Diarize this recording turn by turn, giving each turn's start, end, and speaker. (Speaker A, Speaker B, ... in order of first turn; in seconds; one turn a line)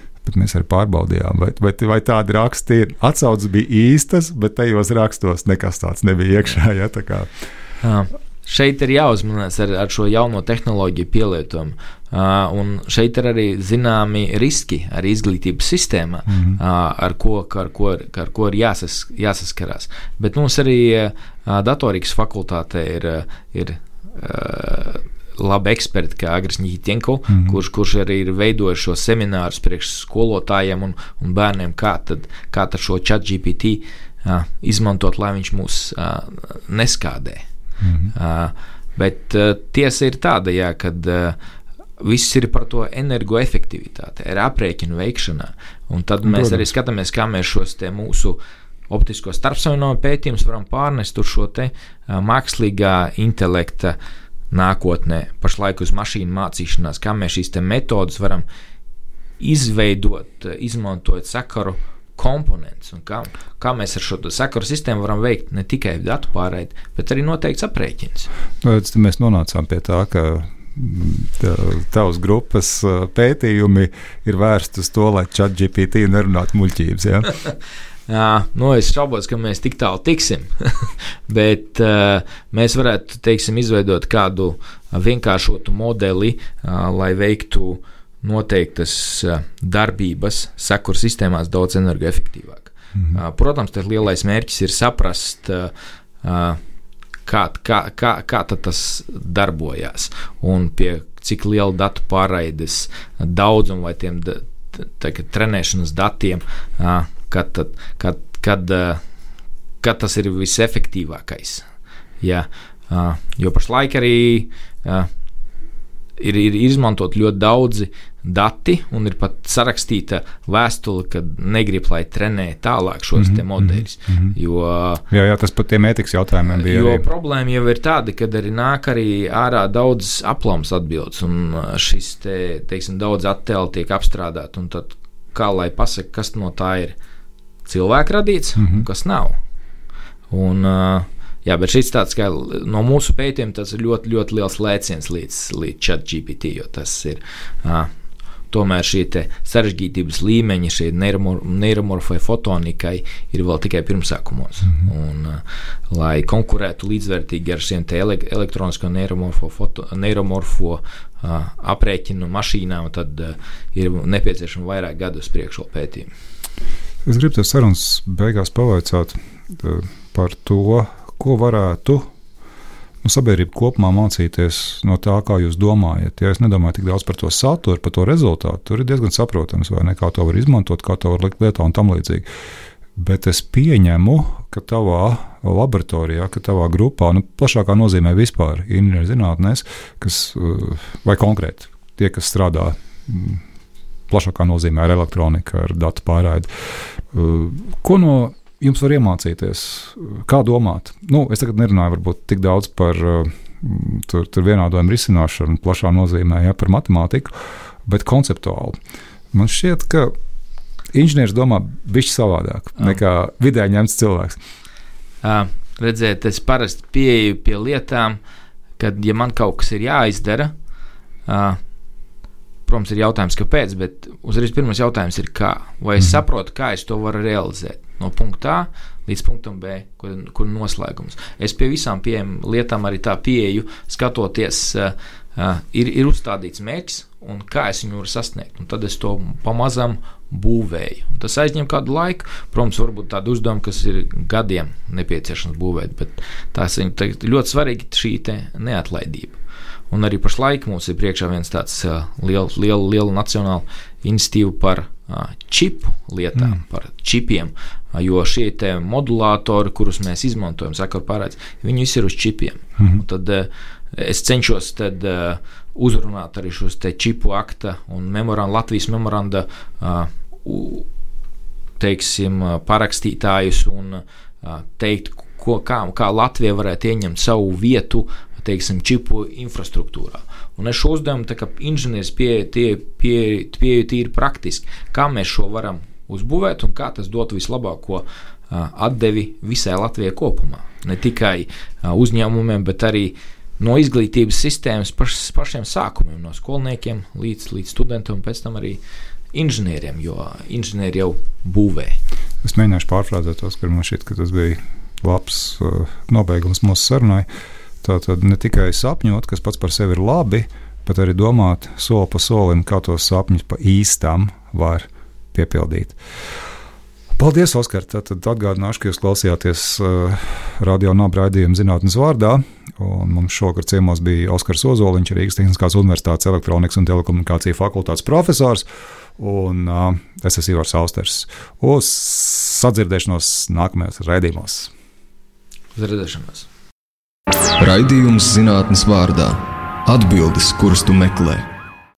Speaker A: 0.2-7.3
Speaker B: 7.8-37.4
Speaker A: 16.3-16.6
Speaker A: 27.3-27.6
Speaker A: 37.8-38.1
Speaker B: 38.1-41.4
Speaker B: 42.0-54.0
Speaker A: 46.2-46.7
Speaker B: 54.5-58.4
Speaker B: 59.4-68.3
Speaker A: 68.6-77.3
Speaker B: 78.1-95.7
Speaker B: 96.2-96.6
Speaker B: 97.2-109.0
Speaker B: 109.8-111.7
Speaker B: 112.2-115.1
Speaker B: 116.2-125.0
Speaker A: 123.2-124.3
Speaker A: 125.1-127.0
Speaker B: 126.5-136.9
Speaker B: 137.7-139.4
Speaker A: 138.6-138.8
Speaker B: 140.3-147.9
Speaker B: 148.5-166.1
Speaker A: 167.0-172.1
Speaker A: 173.0-182.2
Speaker A: 182.9-193.4
Speaker A: 194.1-207.3
Speaker A: 207.8-208.8
Speaker A: 209.3-210.1
Speaker A: 210.9-214.4
Speaker B: 215.2-218.2
Speaker B: 218.8-220.5
Speaker B: 221.2-221.6
Speaker B: 222.7-249.4
Speaker B: 249.9-270.9
Speaker B: 271.8-298.8
Speaker B: 299.3-302.0
Speaker A: 302.4-307.3
Speaker A: 307.8-316.0
Speaker A: 317.1-328.6
Speaker A: 329.2-334.7
Speaker B: 335.7-336.5
Speaker C: 337.6-341.5